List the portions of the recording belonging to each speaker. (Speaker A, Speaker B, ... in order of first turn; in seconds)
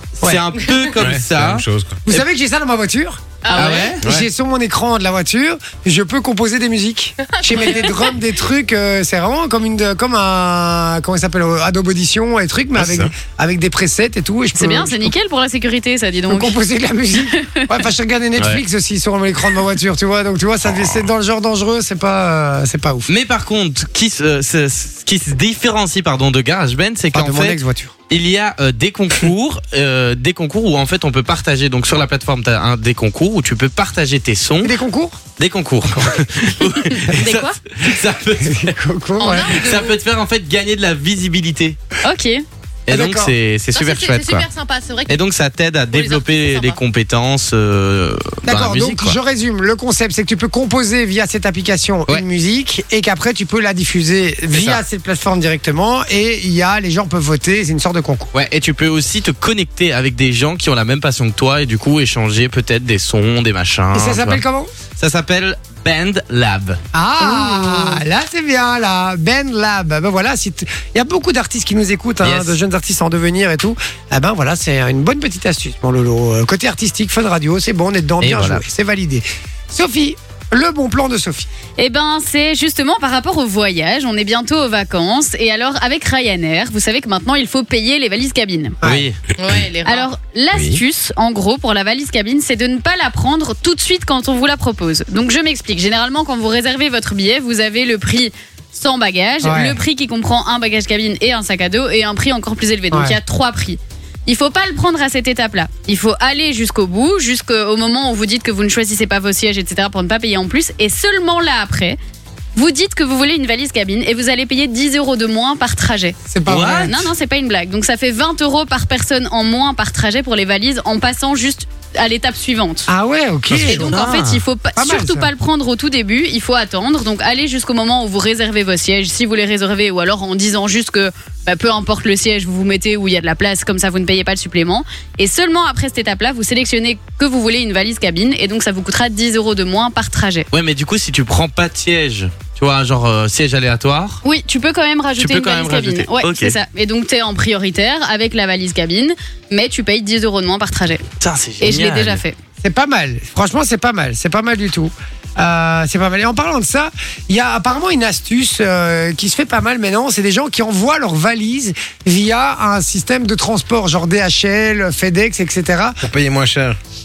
Speaker A: 0.1-1.6, 3.5-4.0, 23.1-27.6, 28.1-34.7, 35.4-38.6, 39.5-41.8, 42.9-44.5, 45.1-49.1, 54.5-54.8, 58.3-64.4, 64.9-66.8, 72.2-72.5, 78.2-78.6, 88.8-89.2, 116.5-117.0, 123.6-124.4, 140.5-144.2, 145.2-146.6, 151.2-152.2
Speaker B: 0.6-0.9, 3.4-4.0, 7.3-8.1, 39.2-40.0, 43.7-45.2, 45.9-46.8, 89.4-90.1
Speaker C: 1.0-2.0, 4.0-4.3, 12.8-13.1, 90.5-90.8, 166.0-166.8
Speaker D: 2.0-15.1, 16.3-23.1, 27.1-27.9, 34.6-35.2, 35.9-36.2, 38.4-39.6, 42.9-43.3, 48.4-58.3, 63.9-64.7, 66.9-81.5, 88.8-89.1, 99.4-99.8, 102.9-103.2, 116.3-117.0, 122.9-124.0, 124.8-125.3, 152.6-166.0
Speaker E: 14.5-16.6, 17.3-17.7, 37.0-37.6, 42.0-42.4, 67.2-68.0, 81.8-88.8, 89.8-112.0, 112.5-116.2, 116.8-122.9, 123.6-140.5, 144.2-151.0, 151.6-152.3